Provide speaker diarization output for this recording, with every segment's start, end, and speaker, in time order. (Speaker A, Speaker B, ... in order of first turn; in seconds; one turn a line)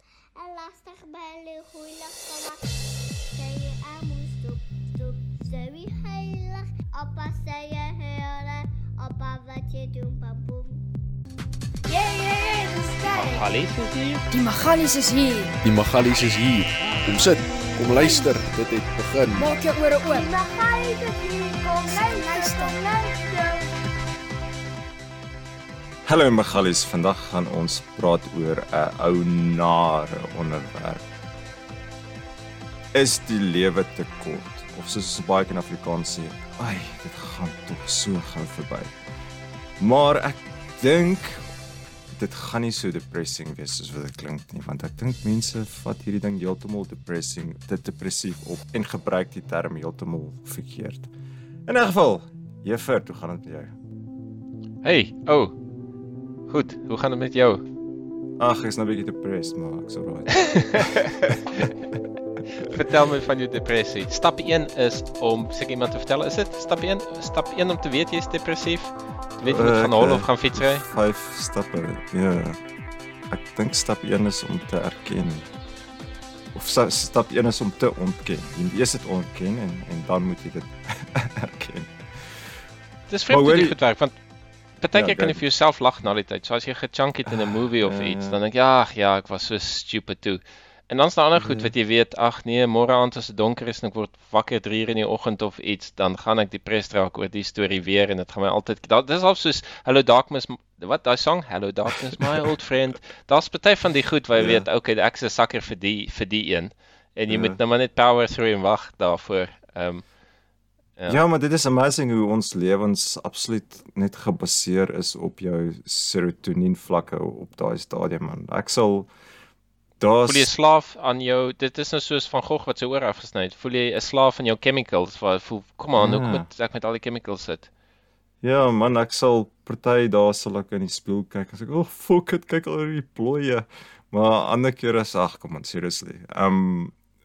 Speaker A: 0.4-2.6
Speaker A: 3.3-10.8
Speaker A: 11.8-13.6
Speaker B: 13.1-14.2
Speaker C: 14.3-15.6
Speaker D: 15.6-19.5
Speaker C: 18.0-18.3
Speaker C: 19.3-20.3
Speaker A: 20.0-23.7
Speaker C: 21.9-22.8
Speaker E: 26.1-31.1
Speaker E: 32.9-38.9
Speaker E: 39.8-41.4
Speaker E: 42.1-51.1
Speaker E: 51.6-53.7
Speaker B: 54.8-55.6
Speaker B: 56.5-57.6
Speaker E: 58.4-61.7
Speaker B: 60.5-61.4
Speaker B: 62.5-70.8
Speaker E: 69.4-72.6
Speaker E: 73.3-75.5
Speaker E: 76.5-82.5
Speaker B: 83.1-84.2
Speaker E: 83.3-83.7
Speaker B: 84.8-110.0
Speaker E: 84.9-85.4
Speaker E: 87.8-88.4
Speaker E: 91.4-91.7
Speaker E: 104.3-104.7
Speaker E: 107.3-107.6
Speaker E: 111.1-119.1
Speaker E: 120.0-120.5
Speaker B: 120.2-127.7
Speaker E: 126.0-126.5
Speaker E: 128.4-136.9